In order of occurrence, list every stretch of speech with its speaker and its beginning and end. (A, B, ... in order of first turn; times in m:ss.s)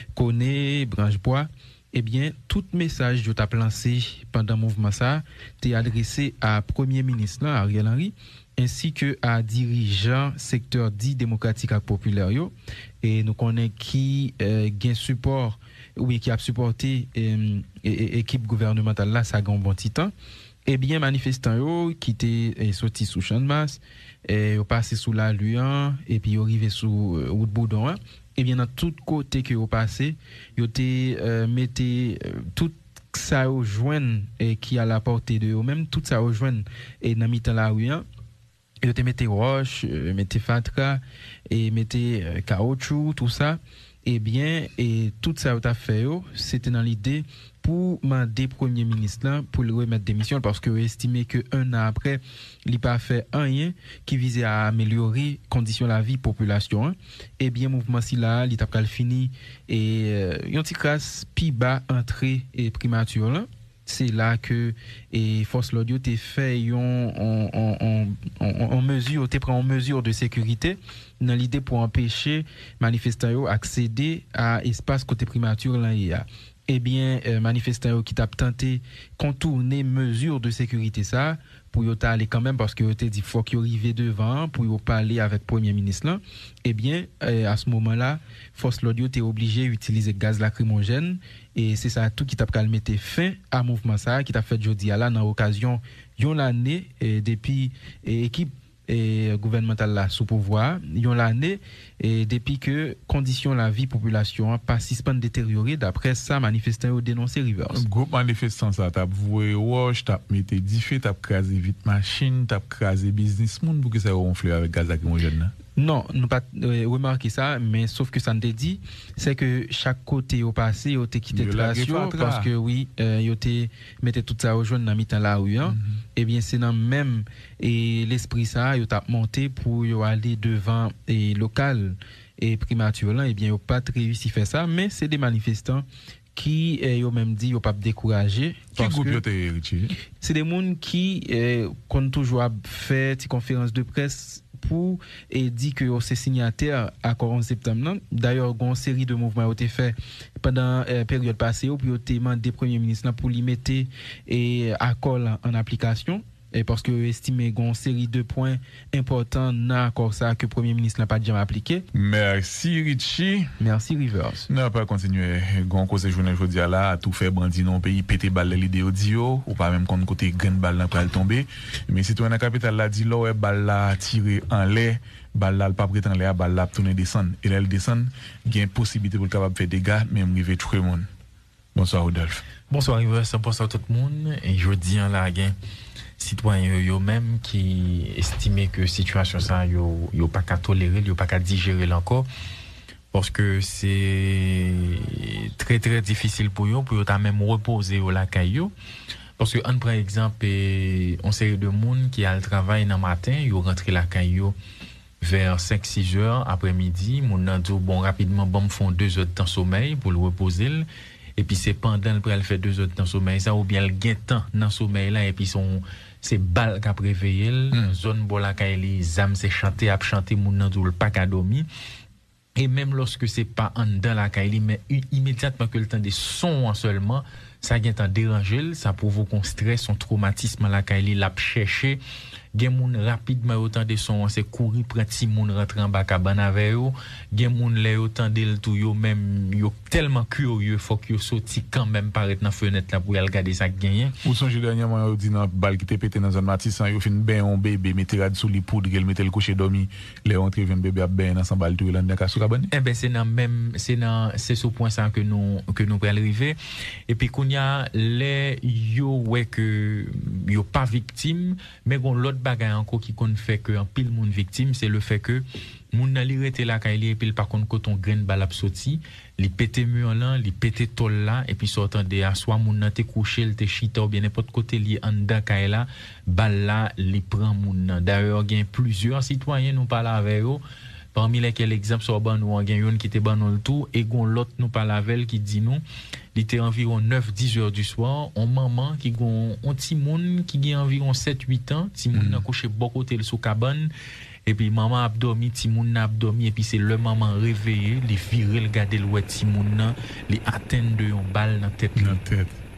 0:00.2-0:20.1 A
0:20.7-0:38.0 A
0:38.8-1:47.8 A
1:47.8-1:55.5 B
1:55.8-2:19.2 A
2:01.3-2:02.5 B
2:05.7-2:06.0 B
2:18.8-2:19.9 B
2:20.2-2:41.9 A
2:41.9-2:43.5 B
2:43.6-2:44.5 A
2:44.5-3:01.1 B
3:01.8-3:02.4 B
3:02.7-3:05.6 C
3:06.2-3:12.3 C
3:13.1-3:18.7 C
3:19.4-3:24.6 C
3:25.2-3:30.9 C
3:31.4-3:41.7 C
3:37.7-3:38.0 B
3:42.6-3:52.0 C
3:52.5-4:04.2 C
4:04.2-4:12.7 B
4:12.7-4:16.6 C
4:17.1-4:40.6 C
4:41.1-4:45.8 C
4:46.4-4:53.9 C
4:52.1-4:52.5 B
4:54.5-5:02.2 C
5:02.0-5:02.6 B